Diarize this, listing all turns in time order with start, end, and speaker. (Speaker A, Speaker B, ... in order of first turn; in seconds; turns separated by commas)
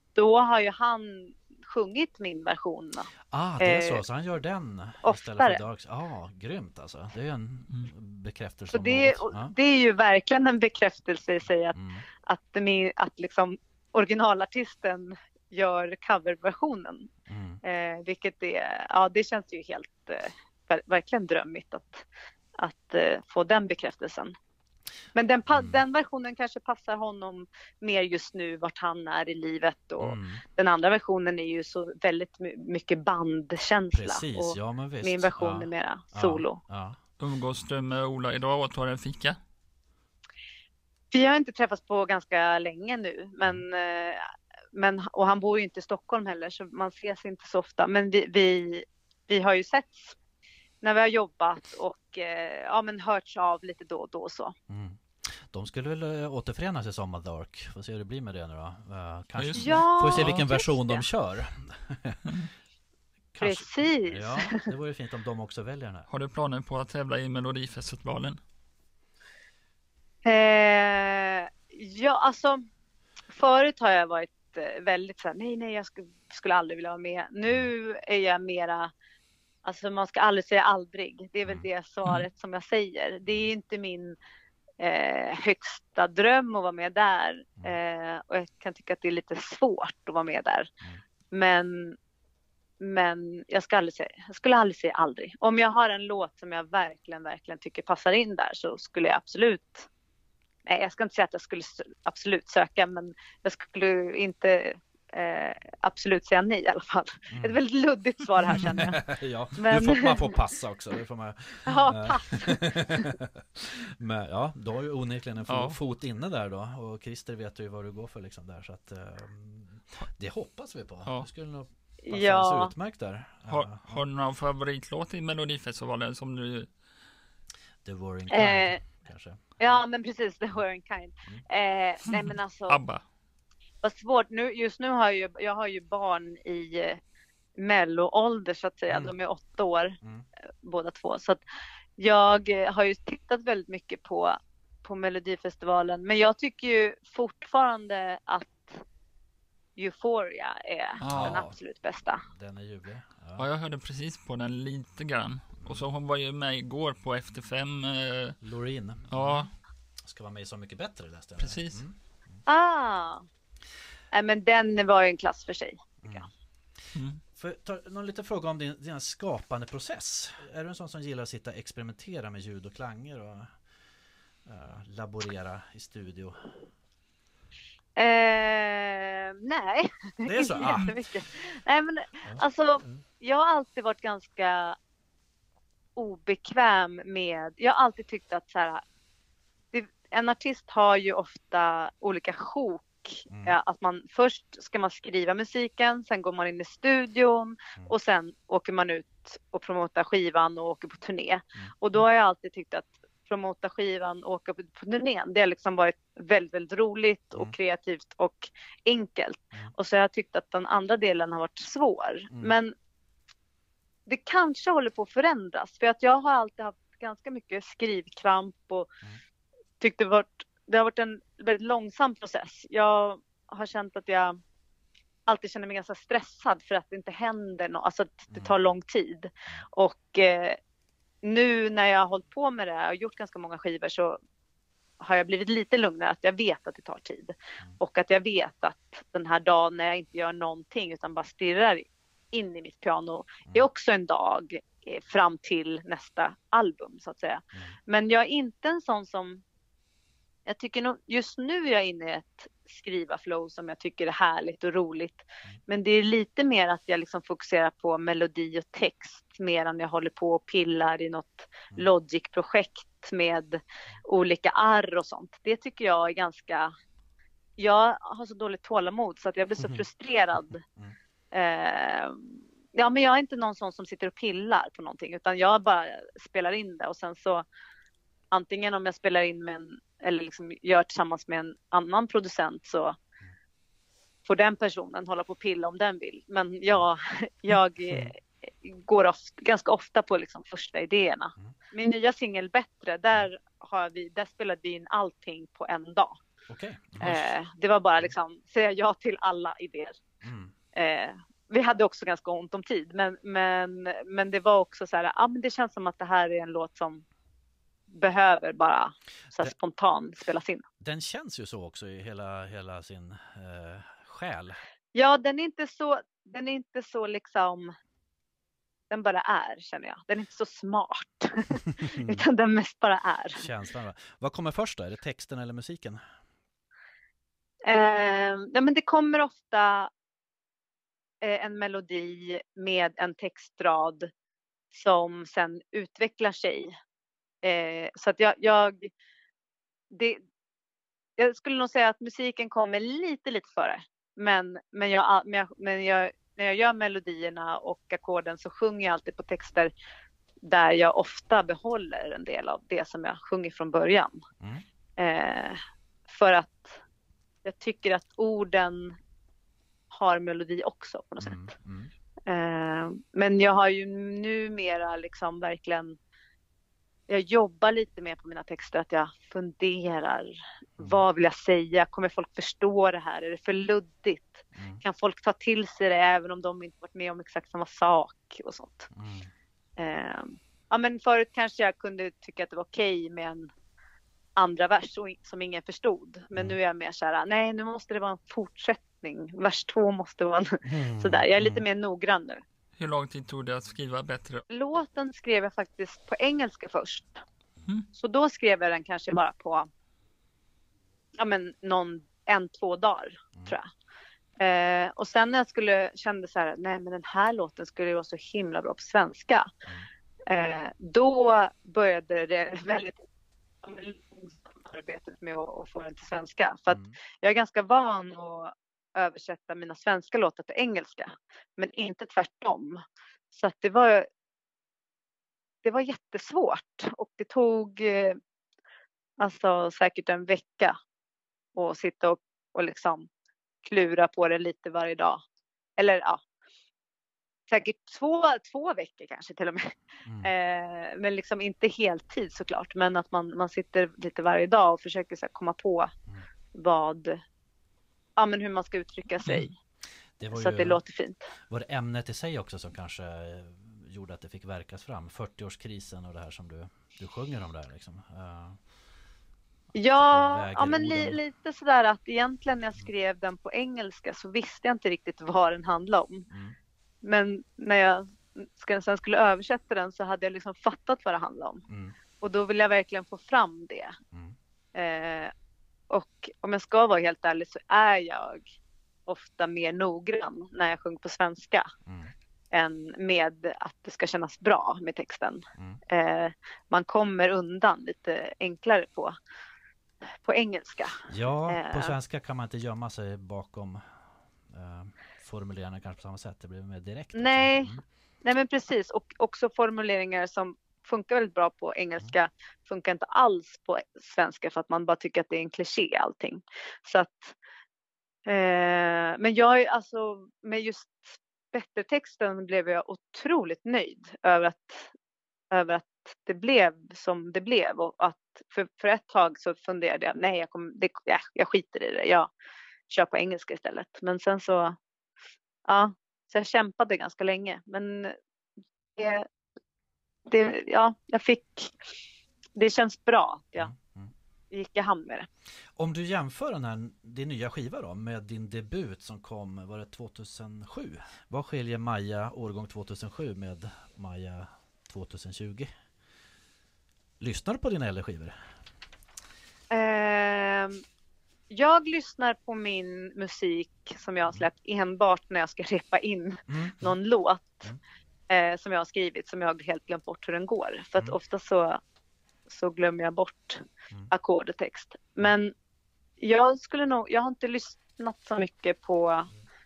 Speaker A: 0.2-4.0, Speaker B: 3.3-9.5, Speaker A: 5.0-5.6, Speaker A: 8.7-17.1, Speaker B: 11.7-12.0, Speaker B: 17.3-17.6, Speaker A: 17.6-22.1, Speaker A: 22.6-24.3, Speaker A: 25.1-36.6, Speaker B: 25.5-25.8, Speaker B: 30.0-30.4, Speaker B: 33.9-37.0, Speaker C: 37.2-39.4, Speaker A: 41.1-50.2, Speaker A: 50.8-54.5, Speaker B: 54.7-62.4, Speaker C: 59.4-60.4, Speaker A: 59.6-61.0, Speaker B: 63.3-66.1, Speaker A: 63.4-64.7, Speaker C: 66.1-68.4, Speaker A: 70.2-72.6, Speaker A: 73.3-78.9, Speaker A: 79.6-84.2, Speaker A: 84.8-90.7, Speaker A: 91.3-92.0, Speaker A: 92.8-99.9, Speaker A: 100.7-109.0, Speaker B: 107.3-107.6, Speaker B: 108.5-124.0, Speaker A: 109.6-110.3, Speaker A: 111.7-113.1, Speaker C: 115.5-115.8, Speaker A: 122.0-122.7, Speaker C: 123.5-126.7, Speaker B: 127.8-129.4, Speaker A: 128.3-128.8, Speaker A: 129.6-132.8, Speaker C: 132.1-133.0, Speaker A: 133.8-137.0, Speaker A: 137.6-140.0, Speaker A: 140.6-141.4, Speaker A: 142.0-148.8, Speaker A: 149.8-152.2, Speaker C: 151.0-151.4, Speaker B: 151.1-151.6, Speaker B: 152.3-153.5, Speaker C: 153.4-158.4, Speaker B: 158.4-159.5, Speaker C: 159.1-159.5, Speaker B: 160.0-162.0, Speaker C: 161.4-161.8, Speaker A: 162.5-163.3, Speaker A: 164.1-166.3, Speaker B: 166.0-166.3, Speaker C: 166.9-167.2, Speaker B: 167.4-173.5, Speaker B: 174.4-176.6, Speaker A: 178.0-184.8, Speaker B: 180.3-181.0, Speaker B: 182.2-183.0, Speaker A: 186.0-188.8, Speaker A: 189.7-212.7, Speaker B: 193.3-193.6, Speaker A: 214.1-218.9, Speaker A: 219.8-224.4, Speaker A: 225.3-230.6, Speaker A: 231.2-234.2, Speaker A: 235.0-249.4, Speaker A: 250.5-266.7, Speaker A: 267.6-270.6, Speaker A: 271.3-277.4, Speaker A: 278.3-283.0, Speaker A: 284.3-296.2, Speaker B: 296.5-297.3, Speaker A: 297.0-300.0, Speaker B: 300.2-300.5, Speaker A: 300.8-307.1, Speaker A: 307.9-310.6, Speaker B: 310.8-314.6, Speaker A: 314.9-317.7, Speaker A: 318.9-323.4, Speaker B: 321.8-322.2, Speaker B: 323.4-326.0, Speaker A: 327.6-329.9, Speaker A: 331.2-334.1, Speaker A: 334.7-336.7, Speaker A: 337.4-338.9, Speaker A: 339.9-340.2, Speaker A: 341.2-349.7, Speaker A: 350.4-354.2, Speaker A: 355.0-356.8, Speaker A: 357.4-359.0, Speaker A: 359.9-361.5, Speaker B: 361.2-361.9, Speaker A: 362.3-366.0, Speaker A: 367.1-378.9, Speaker B: 374.6-374.8, Speaker B: 378.9-379.3, Speaker A: 379.8-383.5, Speaker A: 384.4-392.4, Speaker B: 390.6-391.6, Speaker C: 392.8-394.4, Speaker A: 394.5-397.2, Speaker A: 397.9-399.7, Speaker A: 401.2-403.7, Speaker A: 404.4-409.5, Speaker A: 410.3-413.0, Speaker A: 413.6-422.8, Speaker B: 416.7-417.0, Speaker A: 423.3-424.1, Speaker A: 425.6-428.2, Speaker A: 429.2-430.8, Speaker A: 431.6-433.1, Speaker A: 433.6-435.2, Speaker A: 435.8-436.2, Speaker A: 437.5-445.9, Speaker B: 440.1-440.3, Speaker A: 446.5-447.2, Speaker A: 448.2-449.5, Speaker B: 450.2-450.8, Speaker A: 450.3-451.3, Speaker B: 451.5-458.6, Speaker B: 459.7-461.2, Speaker A: 459.8-466.3, Speaker B: 466.3-466.6, Speaker A: 467.0-471.6, Speaker B: 471.7-471.9, Speaker A: 472.2-474.0, Speaker A: 474.8-475.3, Speaker A: 475.9-478.5, Speaker A: 479.1-481.7, Speaker B: 481.9-482.1, Speaker A: 482.5-489.1, Speaker A: 490.2-491.9, Speaker B: 491.1-497.8, Speaker A: 497.1-507.4, Speaker A: 508.3-514.9, Speaker A: 515.5-522.3, Speaker A: 522.9-524.8, Speaker A: 525.7-528.2, Speaker A: 529.0-529.3, Speaker A: 530.3-531.8, Speaker A: 532.6-533.7, Speaker B: 533.6-534.1, Speaker A: 534.5-535.3, Speaker B: 535.8-545.7, Speaker B: 547.2-548.4, Speaker A: 549.7-550.8, Speaker A: 551.5-557.6, Speaker B: 556.5-556.9, Speaker A: 558.3-561.8, Speaker A: 562.5-565.5, Speaker A: 566.2-569.3